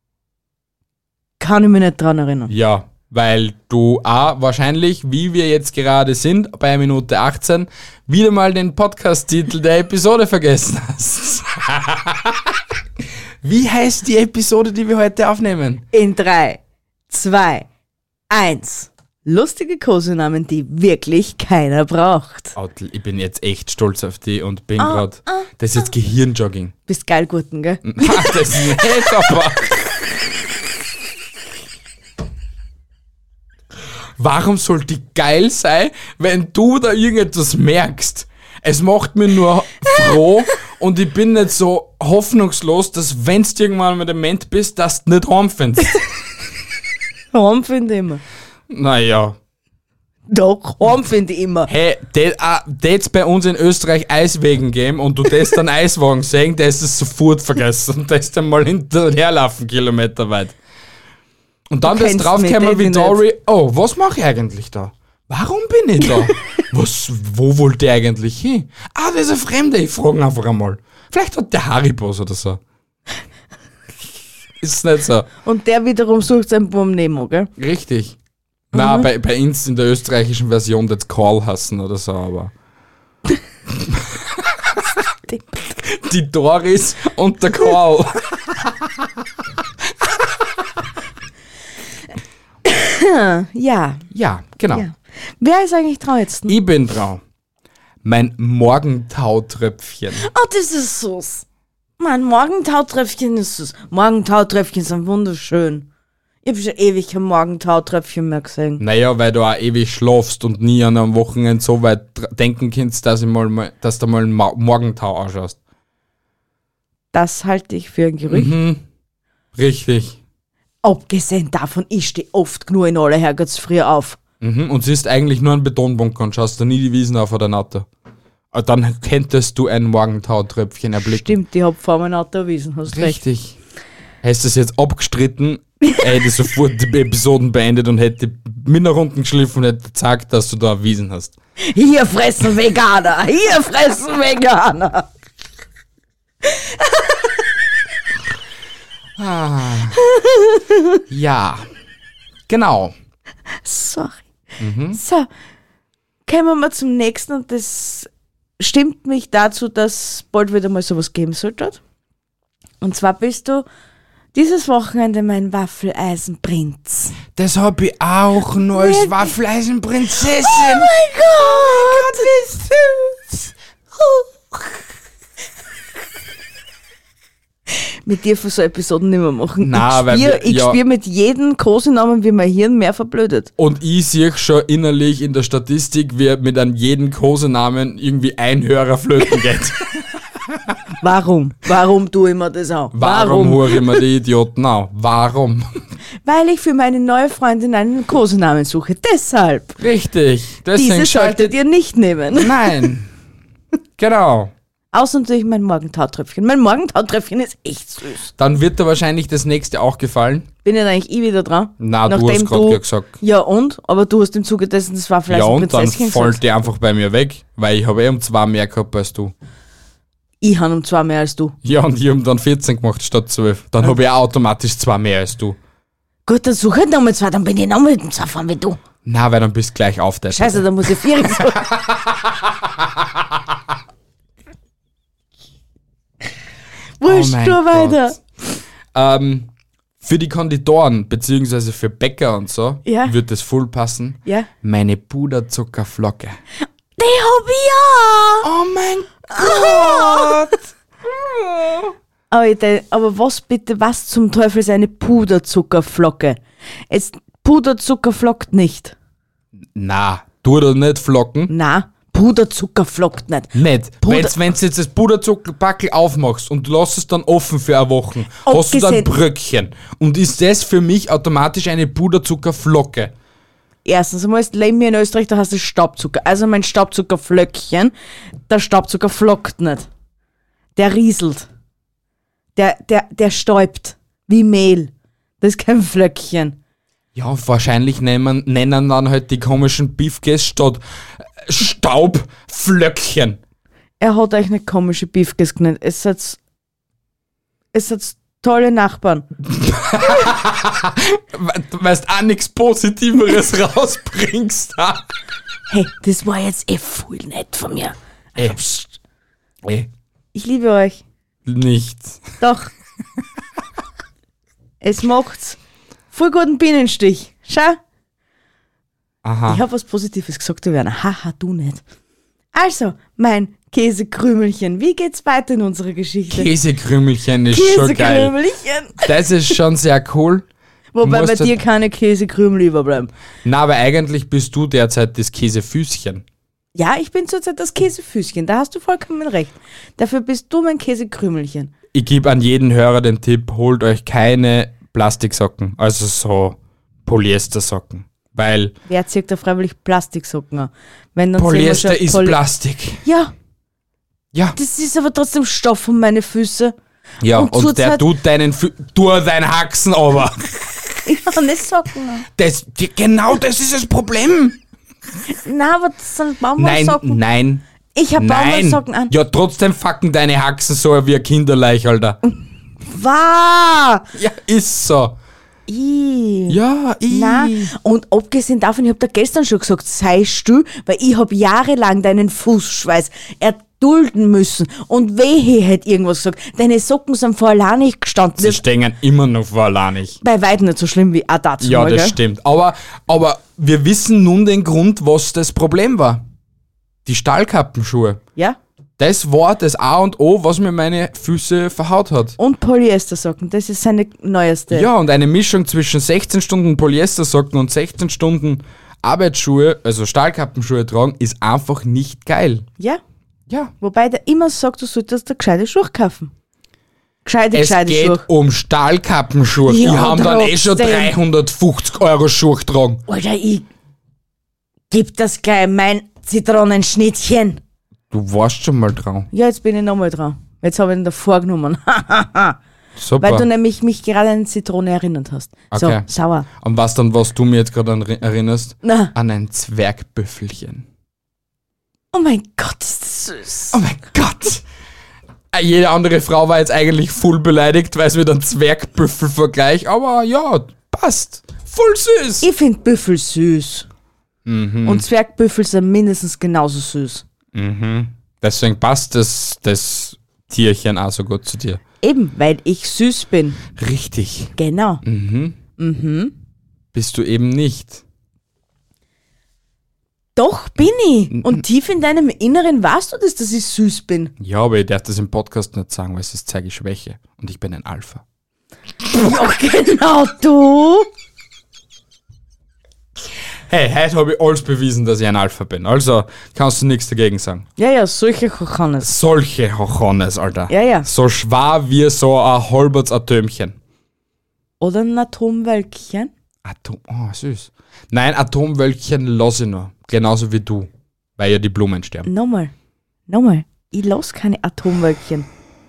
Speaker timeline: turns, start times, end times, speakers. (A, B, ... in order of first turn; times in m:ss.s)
0:01.4-0:02.5 A
0:02.5-0:12.6 B
0:13.4-0:15.8 B
0:15.9-0:17.7 A
0:18.3-0:22.5 A
0:22.5-0:26.7 B
0:24.8-0:25.5 A
0:26.9-0:29.2 A
0:27.8-0:30.1 B
0:34.2-0:46.0 B
0:47.3-0:48.2 A
0:48.7-0:49.4 B
0:50.3-0:51.7 A
0:51.7-1:00.6 B
1:01.7-1:12.6 B
1:01.8-1:03.2 A
1:14.6-1:15.3 B
1:15.4-1:17.5 A
1:17.6-1:18.2 B
1:18.7-1:22.5 B
1:18.7-1:19.0 A
1:23.8-1:24.8 B
1:25.3-1:25.7 A
1:25.8-1:29.1 B
1:30.0-1:30.4 B
1:32.6-1:34.0 A
1:34.1-1:34.8 B
1:34.7-1:36.5 A
1:36.5-1:37.2 B
1:38.0-1:40.2 B
1:40.1-1:41.4 A
1:42.0-1:45.9 A
1:46.4-1:48.8 A
1:48.8-1:55.6 B
1:57.1-1:58.5 A
1:58.3-1:58.8 B
1:59.5-2:00.2 B
2:00.8-2:04.2 A
2:04.4-2:07.8 B
2:08.5-2:11.4 B
2:11.0-2:13.2 A
2:12.9-2:13.6 B
2:14.2-2:21.3 B
2:21.6-2:25.1 A
2:26.4-2:27.4 A
2:29.2-2:30.0 B
2:30.0-2:31.0 A
2:31.1-2:31.6 B
2:32.5-2:32.9 B
2:33.6-2:34.2 A
2:34.6-2:35.0 B
2:34.9-2:35.3 A
2:36.2-2:41.8 A
2:42.8-2:43.6 A
2:44.3-2:47.2 A
2:47.4-2:50.9 B
2:48.7-2:49.3 A
2:50.4-2:53.1 A
2:51.6-2:52.6 B
2:58.0-3:03.5 A
2:59.6-3:00.8 B
3:03.6-3:10.7 B
3:11.0-3:13.9 A
3:12.9-3:15.8 B
3:16.2-3:19.8 A
3:19.8-3:21.5 B
3:20.7-3:22.6 A
3:22.3-3:23.1 B
3:24.0-3:24.5 B
3:24.9-3:28.3 A
3:28.4-3:30.5 B
3:30.6-3:36.4 A
3:31.8-3:33.1 B
3:35.3-3:39.3 B
3:40.4-3:41.5 A
3:41.6-3:45.6 B
3:46.2-3:48.8 A
3:49.0-3:53.2 B
3:50.3-3:51.7 A
3:57.0-3:58.2 A
3:57.0-3:58.2 B
3:58.9-3:59.5 B
4:00.0-4:06.4 B
4:02.8-4:03.1 A
4:07.0-4:08.5 A
4:08.4-4:11.9 B
4:09.3-4:10.5 A
4:12.3-4:18.9 A
4:19.7-4:21.5 B
4:21.5-4:24.4 A
4:23.5-4:33.1 B
4:28.4-4:29.1 A
4:33.8-4:37.9 A
4:38.5-4:39.9 A
4:40.8-4:41.5 A
4:42.6-4:46.6 A
4:47.1-4:53.4 B
4:54.0-4:56.4 A
4:57.7-4:59.2 A
4:59.5-5:05.1 B
5:05.7-5:08.9 A
5:09.6-5:09.9 B
5:10.3-5:11.0 A
5:11.4-5:12.4 B
5:12.4-5:12.7 A
5:14.8-5:15.6 A
5:16.1-5:17.8 A
5:19.2-5:19.6 B
5:19.5-5:21.8 A
5:22.5-5:26.5 A
5:26.3-5:28.3 B
5:27.5-5:29.5 A
5:29.0-5:30.4 B
5:30.9-5:33.1 A
5:31.0-5:31.6 B
5:33.4-5:36.2 B
5:36.7-5:41.7 A
5:41.9-5:48.7 B
5:48.9-5:52.4 A
5:51.4-5:53.0 B
5:53.0-5:53.3 A
5:54.6-5:56.7 A
5:57.2-6:01.0 B
5:57.3-5:58.1 A
6:01.0-6:02.3 A
6:02.3-6:04.6 B
6:05.3-6:07.2 A
6:06.6-6:07.6 B
6:07.9-6:09.1 A
6:08.2-6:12.2 B
6:12.8-6:14.0 A
6:14.1-6:15.2 B
6:15.7-6:16.6 A
6:16.5-6:17.7 B
6:17.1-6:28.6 A
6:28.4-6:30.2 B
6:30.2-6:32.2 A
6:31.6-6:36.2 B
6:37.0-6:38.2 B
6:39.0-6:42.4 B
6:42.4-6:44.9 A
6:44.7-6:52.7 B
6:53.8-6:56.3 A
6:57.2-6:58.2 A
6:57.5-7:03.0 B
6:59.7-7:01.1 A
7:03.1-7:03.6 A
7:04.9-7:07.6 A
7:08.1-7:09.3 B
7:09.3-7:12.6 A
7:13.0-7:13.5 B
7:13.2-7:16.4 A
7:15.7-7:20.8 B
7:18.8-7:19.1 A
7:22.1-7:23.8 A
7:23.7-7:24.6 B
7:25.5-7:32.5 B
7:32.4-7:33.9 A
7:34.4-7:35.0 B
7:34.8-7:37.2 A
7:37.5-7:41.8 B
7:42.0-7:43.6 A
7:43.8-7:45.6 B
7:44.6-7:45.0 A
7:45.8-7:46.3 A
7:46.9-7:48.0 B
7:50.4-7:54.3 A
7:54.4-7:58.2 B
7:59.1-8:01.1 A
8:03.7-8:07.6 B
8:07.8-8:09.1 A
8:09.0-8:13.8 B
8:10.7-8:11.1 A
8:14.8-8:16.3 A
8:16.6-8:22.3 B
8:22.2-8:22.7 A
8:23.3-8:25.5 A